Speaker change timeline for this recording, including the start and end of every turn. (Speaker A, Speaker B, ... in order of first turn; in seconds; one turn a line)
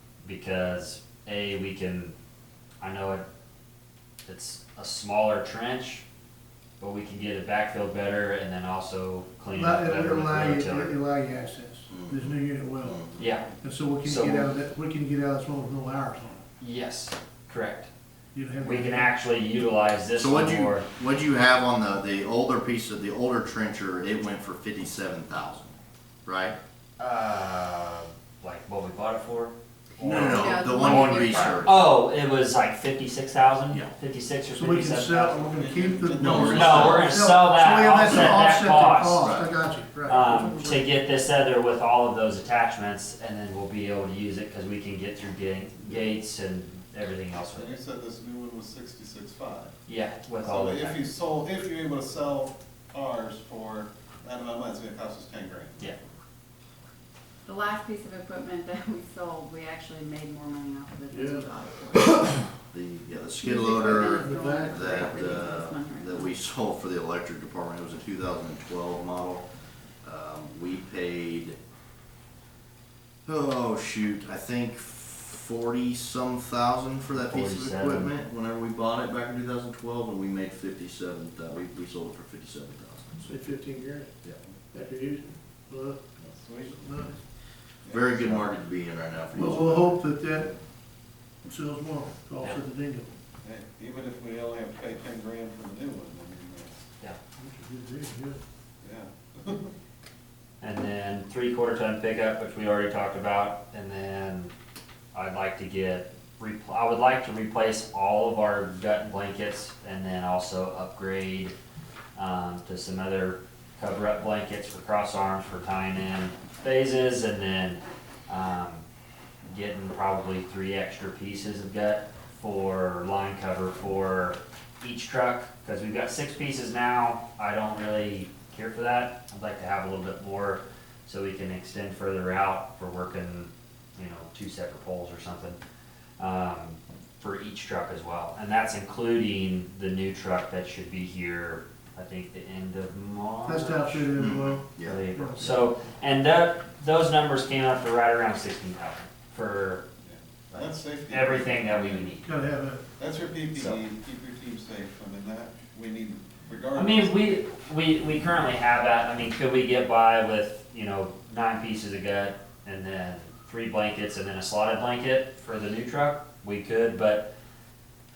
Speaker A: 0.2-2.1
Speaker A: 2.8-3.2
Speaker A: 4.2-6.0
Speaker A: 6.8-10.9
Speaker B: 9.5-13.1
Speaker C: 11.9-13.2
Speaker A: 13.2-13.5
Speaker B: 13.6-16.4
Speaker A: 14.0-14.5
Speaker A: 16.6-17.9
Speaker B: 18.3-19.1
Speaker A: 18.6-20.9
Speaker C: 20.2-25.7
Speaker C: 26.2-26.6
Speaker A: 27.0-35.4
Speaker C: 30.0-31.9
Speaker D: 30.1-31.6
Speaker B: 34.5-40.8
Speaker E: 35.3-37.2
Speaker C: 36.2-37.0
Speaker A: 36.5-39.3
Speaker C: 39.2-39.5
Speaker A: 40.1-47.8
Speaker E: 47.5-49.7
Speaker A: 49.9-51.0
Speaker E: 50.4-55.9
Speaker D: 57.5-62.2
Speaker B: 61.1-61.5
Speaker C: 62.7-69.5
Speaker D: 63.4-66.3
Speaker B: 63.7-64.8
Speaker C: 70.0-71.6
Speaker C: 73.2-83.3
Speaker A: 77.3-78.1
Speaker B: 83.2-84.1
Speaker C: 84.2-84.5
Speaker B: 84.7-86.0
Speaker E: 86.2-87.1
Speaker B: 86.7-87.1
Speaker E: 87.8-88.4
Speaker C: 87.9-90.0
Speaker B: 89.3-90.5
Speaker B: 91.5-93.1
Speaker E: 93.4-96.8
Speaker B: 97.4-98.4
Speaker E: 98.8-99.7
Speaker A: 100.6-104.5
Speaker A: 105.1-111.5
Speaker A: 112.2-118.8
Speaker A: 119.4-135.6
Speaker A: 136.2-144.1
Speaker B: 143.4-145.6
Speaker C: 144.2-145.5
Speaker A: 144.8-149.8
Speaker E: 150.0-152.1
Speaker A: 150.5-152.3
Speaker B: 152.2-152.8
Speaker E: 153.0-157.4
Speaker A: 156.7-167.3